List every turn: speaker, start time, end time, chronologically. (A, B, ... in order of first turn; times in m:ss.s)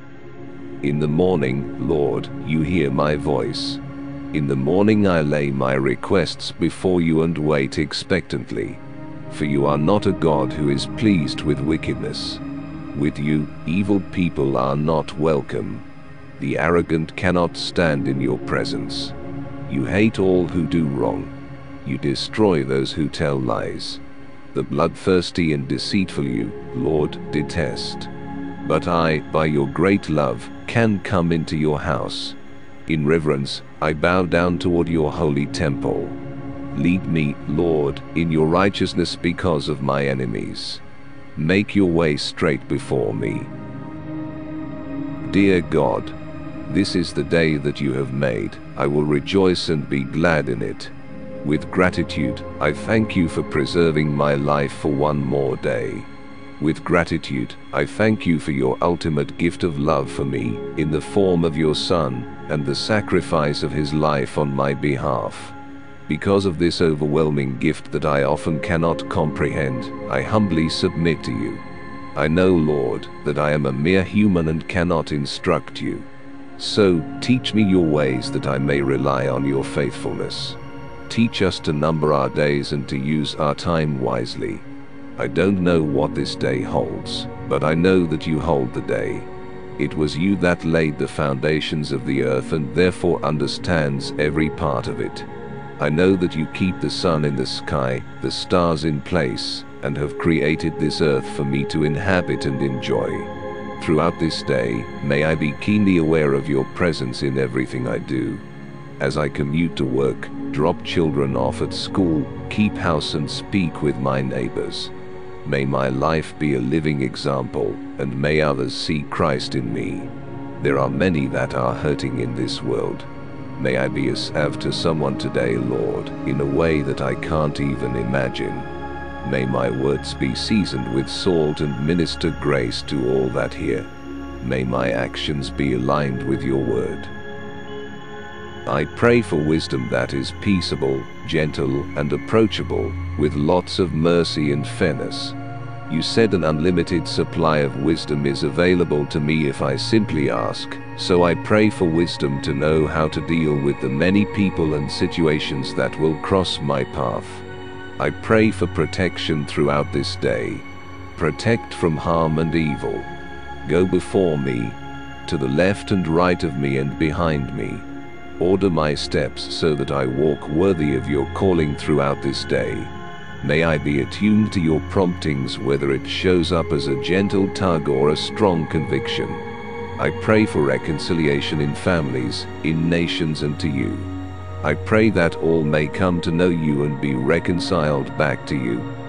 0:00.8-0:15.9 A
0:16.4-0:24.0 A
0:24.5-0:28.1 A
0:28.6-0:36.2 A
0:36.7-0:40.8 A
0:41.4-0:43.5 A
0:45.2-1:05.6 A
1:06.1-1:11.6 A
1:12.2-1:24.7 A
1:25.2-1:48.4 A
1:49.0-2:08.7 A
2:09.2-2:13.9 A
2:14.4-2:17.1 A
2:18.6-2:25.4 A
2:25.9-2:37.4 A
2:38.0-2:43.1 A
2:43.6-2:47.9 A
2:48.4-2:59.4 A
3:00.0-3:08.9 A